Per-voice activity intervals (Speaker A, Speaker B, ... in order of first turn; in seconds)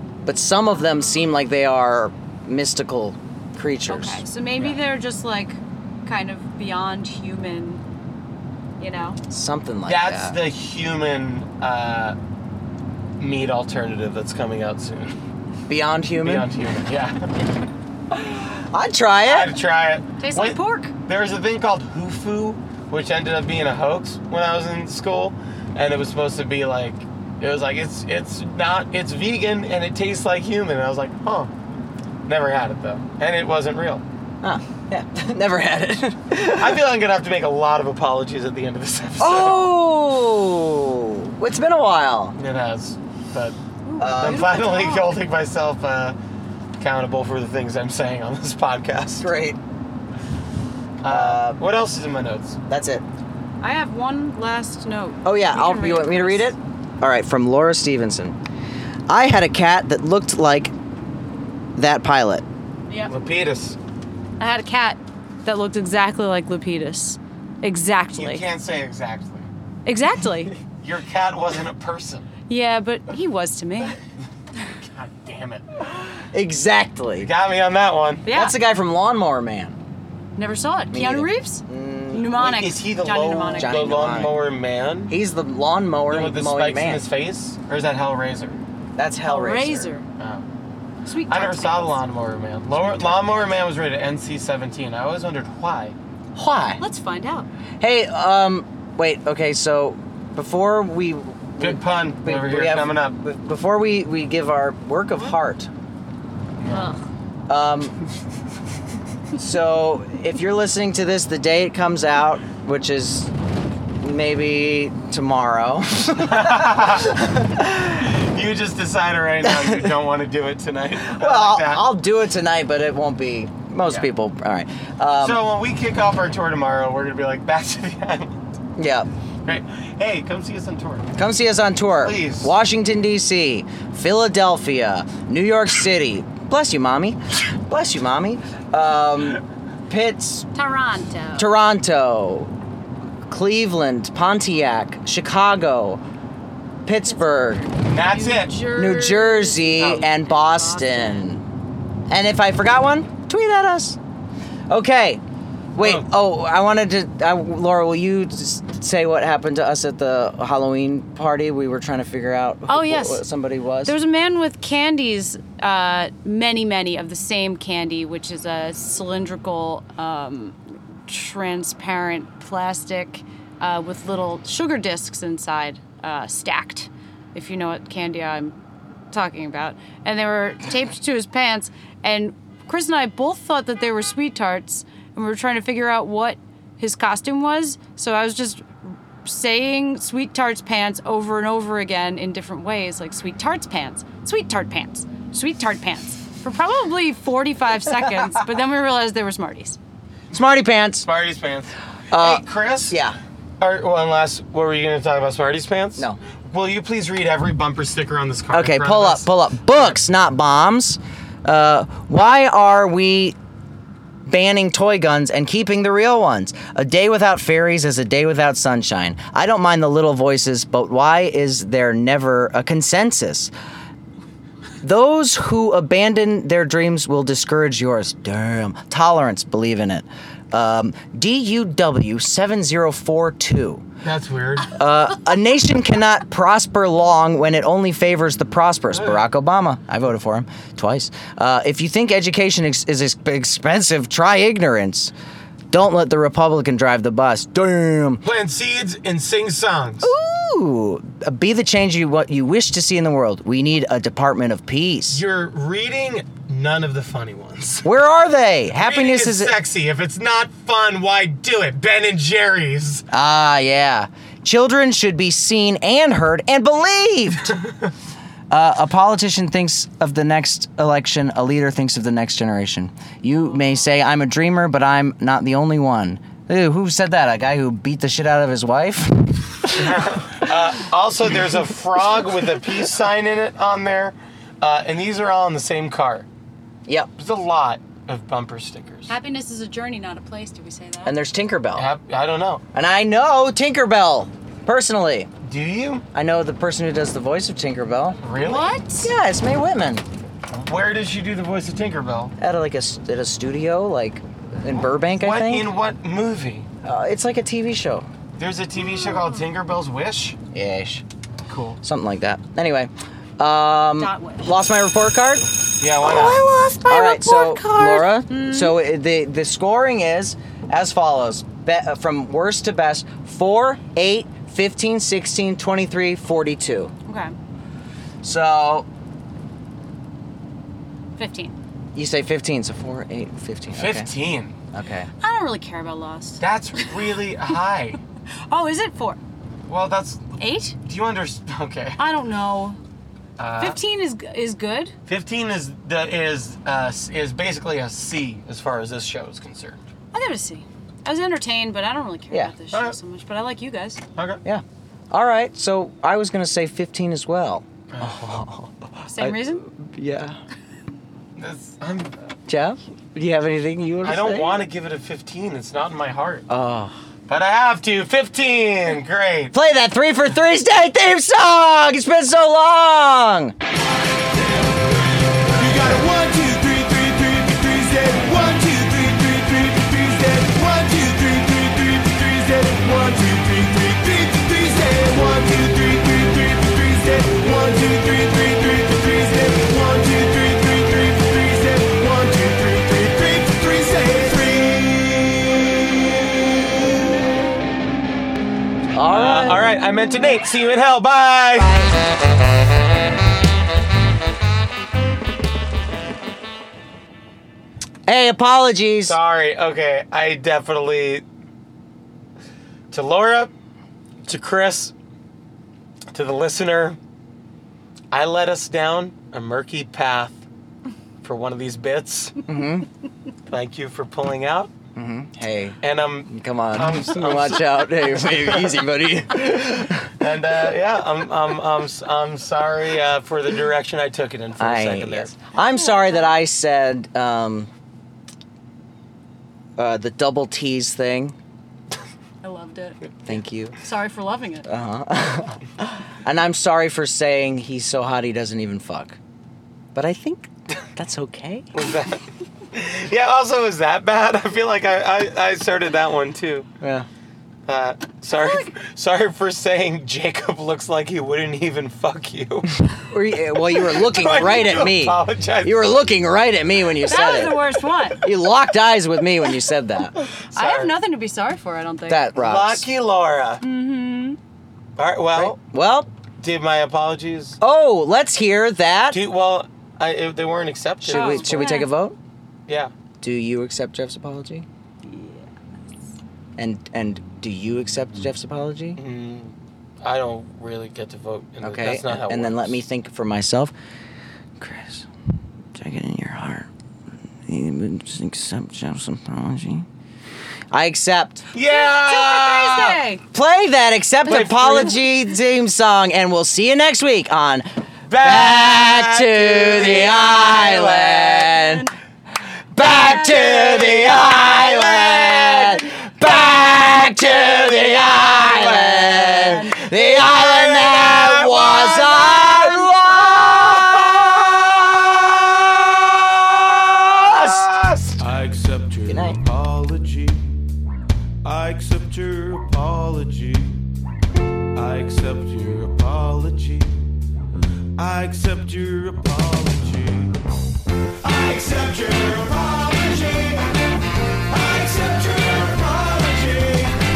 Speaker A: 0.2-4.2, 9.3-10.4, 15.7-16.5, 18.2-19.6, 34.4-36.8, 39.2-42.4, 44.0-44.6, 49.2-49.6, 51.1-51.6, 52.7-53.0, 55.2-58.4, 59.1-60.7, 61.8-62.5, 76.3-77.3, 78.3-79.8, 80.9-82.3, 83.6-84.4, 85.1-87.0, 89.0-89.9, 96.4-96.8, 97.8-105.7, 107.5-108.0, 109.4-113.3, 114.0-117.4, 119.4-119.9, 121.0-125.4, 128.8-129.1, 131.2-140.5, 141.4-142.5, 143.3-146.0, 146.8-147.7, 148.7-151.4, 152.1-154.0, 154.7-155.2, 155.8-163.9, 200.3-201.1, 202.1-203.2, 208.5-213.4, 214.3-223.5, 224.8-233.8, 234.7-245.1, 245.7-248.2, 250.0-255.2, 257.9-259.5, 263.1-267.6, 268.5-280.0, 291.1-291.9, 292.7-295.3, 296.1-298.2, 299.0-300.0, 302.4-305.7, 306.8-308.1, 310.5-311.0, 311.8-316.2, 316.8-326.9, 328.2-328.9, 331.9-334.1, 334.7-335.1, 354.4-360.4, 362.5-364.6, 366.5-366.9, 369.5-373.5, 398.9-399.6, 408.1-409.2, 422.5-422.9, 424.9-430.1, 434.6-437.7, 439.8-441.4, 443.2-443.8, 444.7-449.2, 449.9-451.7, 456.8-457.1, 462.9-470.2, 472.1-472.8, 475.3-476.1, 477.6-479.2, 481.1-482.2, 483.2-484.7, 486.6-489.0, 491.6-493.7, 494.6-495.1, 495.7-496.7, 497.5-499.9, 500.7-501.4, 503.3-507.7, 508.2-511.9, 512.7-524.8, 526.9-527.5, 529.0-529.4
Speaker B: 0.8-1.2, 3.9-7.8, 8.8-9.2, 20.2-20.9, 43.9-45.1, 53.6-56.5, 64.4-68.5, 69.9-70.6, 72.5-74.0, 78.3-78.6, 80.4-83.8, 89.2-90.1, 91.1-92.0, 92.9-93.3, 96.8-97.5, 106.7-107.0, 140.6-141.5, 148.0-151.3, 162.7-163.2, 163.8-178.6, 179.1-199.8, 289.1-291.1, 298.4-299.1, 308.9-309.3, 314.0-314.5, 316.4-318.8, 327.1-327.3, 331.2-331.6, 335.2-336.9, 338.5-339.2, 340.4-340.8, 342.0-342.8, 343.6-344.9, 350.1-354.0, 359.1-359.6, 435.7-436.3, 442.4-443.1, 443.8-444.7, 458.3-458.6, 467.0-468.3, 470.5-472.3, 473.6-474.4, 481.1-481.9, 485.1-485.5, 501.6-503.2, 511.2-511.9, 513.0-513.5, 519.3-519.7
Speaker C: 4.6-4.8, 9.9-12.2, 13.2-15.2, 16.2-17.4, 19.3-31.5, 32.3-34.0, 36.5-39.7, 42.4-43.6, 44.2-46.2, 46.8-49.3, 51.0-52.6, 63.1-63.8, 68.2-69.5, 70.7-72.3, 74.6-75.7, 77.2-78.3, 82.3-85.1, 86.1-88.6, 90.2-90.5, 91.3-96.0, 101.6-103.2, 106.6-106.9, 116.2-121.9, 125.2-128.4, 129.4-131.2, 132.0-132.5, 147.8-148.6, 155.8-156.1, 201.0-203.0, 203.6-210.0, 234.0-234.7, 238.9-239.2, 248.2-250.1, 255.1-257.9, 258.8-263.1, 279.7-286.3, 287.2-289.1, 291.8-292.6, 295.4-296.1, 298.2-298.8, 300.5-302.4, 305.2-306.7, 308.4-310.4, 311.5-311.8, 315.8-316.5, 333.8-334.6, 336.4-338.0, 339.7-342.0, 343.4-343.8, 345.1-349.9, 352.7-353.0, 354.1-354.4, 357.9-358.3, 361.4-362.1, 364.0-366.5, 367.3-369.5, 399.1-401.8, 409.1-411.2, 412.9-413.5, 414.2-414.9, 416.1-417.0, 418.1-420.4, 421.2-422.4, 423.5-424.7, 425.8-428.8, 430.0-435.3, 451.7-456.7, 457.7-462.8, 463.5-466.0, 470.5-471.0, 472.4-473.6, 475.0-475.6, 476.4-477.6, 479.1-481.9, 482.7-482.9, 489.0-492.8, 501.5-503.0, 504.2-505.0, 508.1-511.3, 512.8-515.9, 518.2-528.3
Speaker D: 374.4-395.9, 528.2-530.6, 531.4-533.8, 534.7-537.0, 538.0-540.4, 541.2-543.7, 544.5-547.0